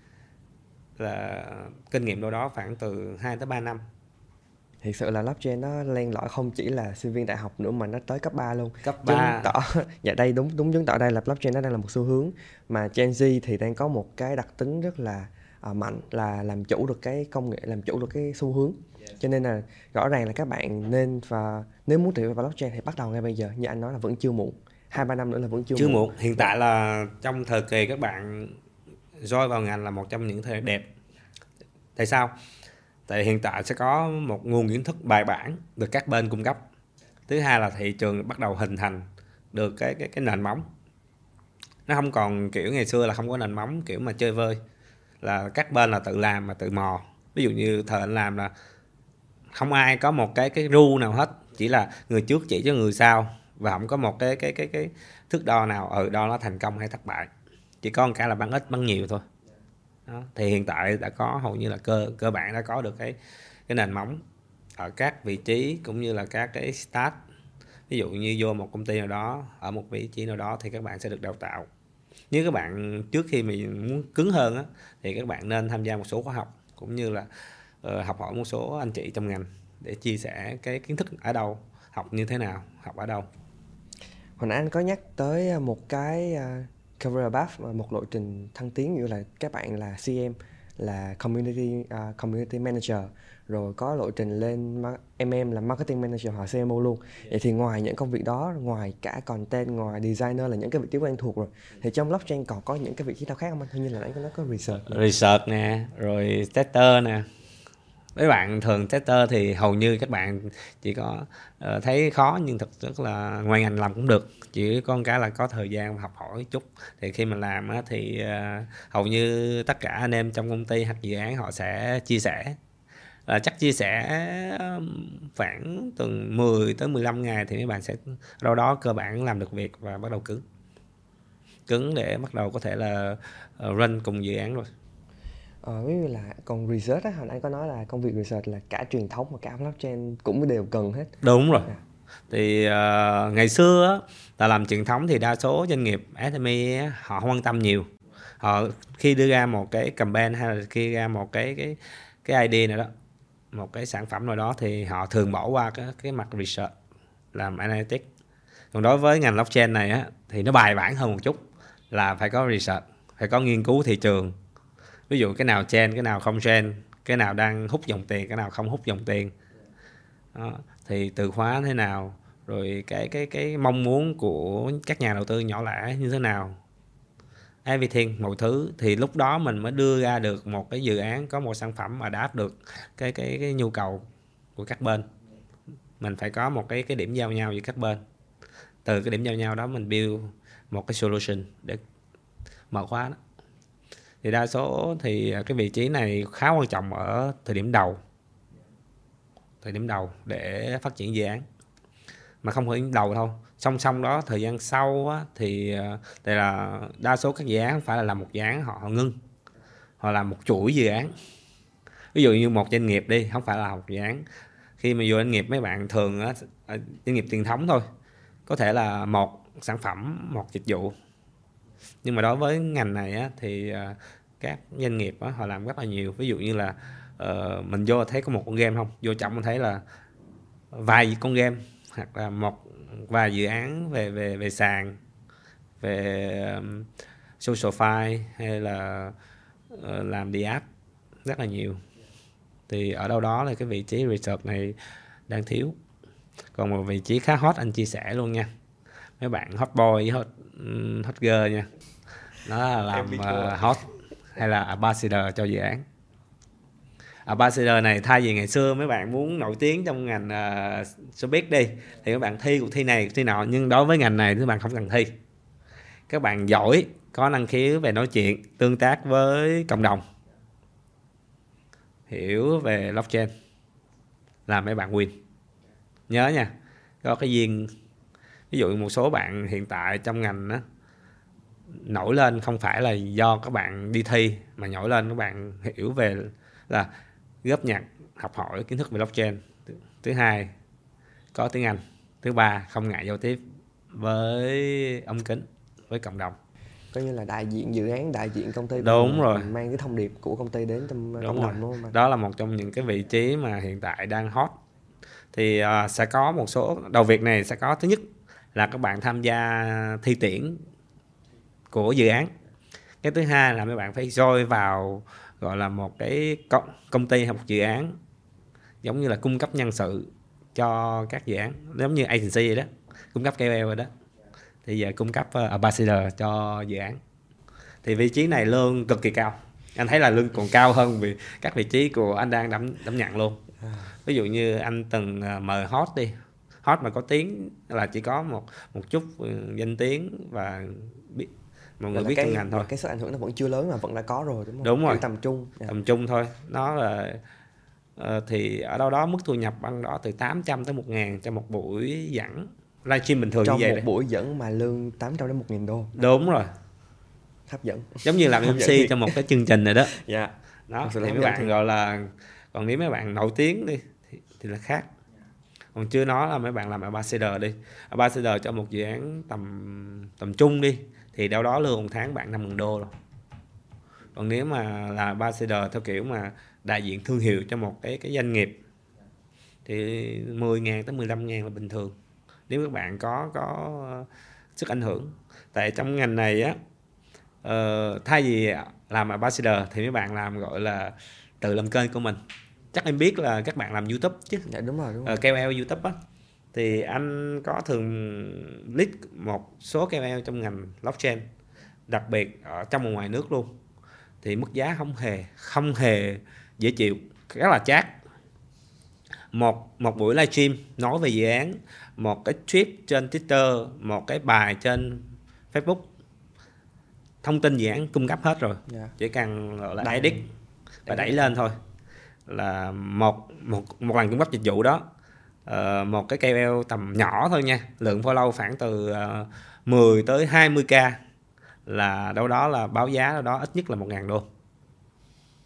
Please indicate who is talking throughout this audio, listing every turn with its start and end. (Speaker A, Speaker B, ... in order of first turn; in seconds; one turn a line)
Speaker A: 1.0-3.8
Speaker B: 4.8-26.5
Speaker A: 8.8-9.6
Speaker A: 25.7-28.6
Speaker A: 29.2-30.9
Speaker A: 31.9-32.3
Speaker A: 33.1-36.6
Speaker A: 37.3-40.6
Speaker A: 41.9-44.6
Speaker A: 45.2-48.5
Speaker A: 49.5-57.3
Speaker A: 57.8-59.2
Speaker A: 60.1-63.2
Speaker A: 63.7-64.2
Speaker A: 64.8-67.2
Speaker A: 67.9-71.7
Speaker A: 72.3-77.3
Speaker A: 77.8-83.3
Speaker B: 84.4-105.0
Speaker A: 104.8-107.3
Speaker A: 108.2-122.6
Speaker A: 123.3-130.4
Speaker A: 131.7-134.7
Speaker B: 135.6-141.1
Speaker A: 141.2-141.7
Speaker A: 142.3-147.9
Speaker A: 148.4-152.9
Speaker A: 153.5-156.7
Speaker A: 157.3-158.1
Speaker A: 158.7-164.4
Speaker A: 165.1-169.3
Speaker A: 170.3-176.6
Speaker A: 177.6-184.0
Speaker A: 184.6-185.1
Speaker A: 186.0-188.0
Speaker A: 188.8-191.8
Speaker A: 192.7-193.2
Speaker A: 194.2-198.0
Speaker A: 199.6-201.4
Speaker A: 202.4-209.2
Speaker A: 210.0-211.1
Speaker A: 212.1-214.2
Speaker A: 214.8-217.8
Speaker A: 218.5-220.9
Speaker A: 222.0-229.8
Speaker A: 230.7-235.0
Speaker A: 235.8-236.9
Speaker A: 237.4-239.1
Speaker A: 239.7-240.6
Speaker A: 241.2-241.8
Speaker A: 242.7-244.8
Speaker A: 245.3-245.8
Speaker A: 246.5-248.5
Speaker A: 249.2-251.7
Speaker A: 252.4-255.8
Speaker B: 252.9-253.8
Speaker A: 257.2-265.1
Speaker A: 266.1-270.1
Speaker A: 272.1-273.3
Speaker A: 274.5-275.2
Speaker A: 276.1-277.7
Speaker A: 278.5-280.6
Speaker A: 281.8-286.9
Speaker A: 287.4-290.5
Speaker A: 291.3-296.4
Speaker B: 296.9-301.9
Speaker A: 298.7-299.5
Speaker A: 301.2-304.6
Speaker A: 305.3-310.6
Speaker A: 311.7-312.3
Speaker A: 313.0-318.0
Speaker A: 318.8-323.9
Speaker A: 324.6-327.0
Speaker A: 327.8-333.4
Speaker A: 334.0-342.7
Speaker B: 341.9-345.7
Speaker A: 344.6-345.0
Speaker A: 345.7-347.2
Speaker A: 348.0-353.8
Speaker B: 353.4-355.9
Speaker A: 355.9-356.5
Speaker B: 357.5-359.2
Speaker A: 358.0-360.0
Speaker B: 359.9-361.5
Speaker A: 360.7-364.9
Speaker A: 365.7-372.9
Speaker A: 374.1-378.6
Speaker A: 379.6-381.9
Speaker A: 382.5-386.6
Speaker A: 387.4-392.2
Speaker A: 392.7-394.5
Speaker B: 394.5-395.2
Speaker A: 395.0-396.0
Speaker A: 396.5-401.2
Speaker A: 401.9-403.6
Speaker A: 404.2-408.0
Speaker A: 409.3-415.9
Speaker A: 417.2-420.3
Speaker B: 418.7-418.9
Speaker B: 419.8-420.2
Speaker B: 420.9-421.3
Speaker A: 420.9-421.6
Speaker A: 422.3-424.9
Speaker A: 425.4-431.0
Speaker A: 431.6-434.3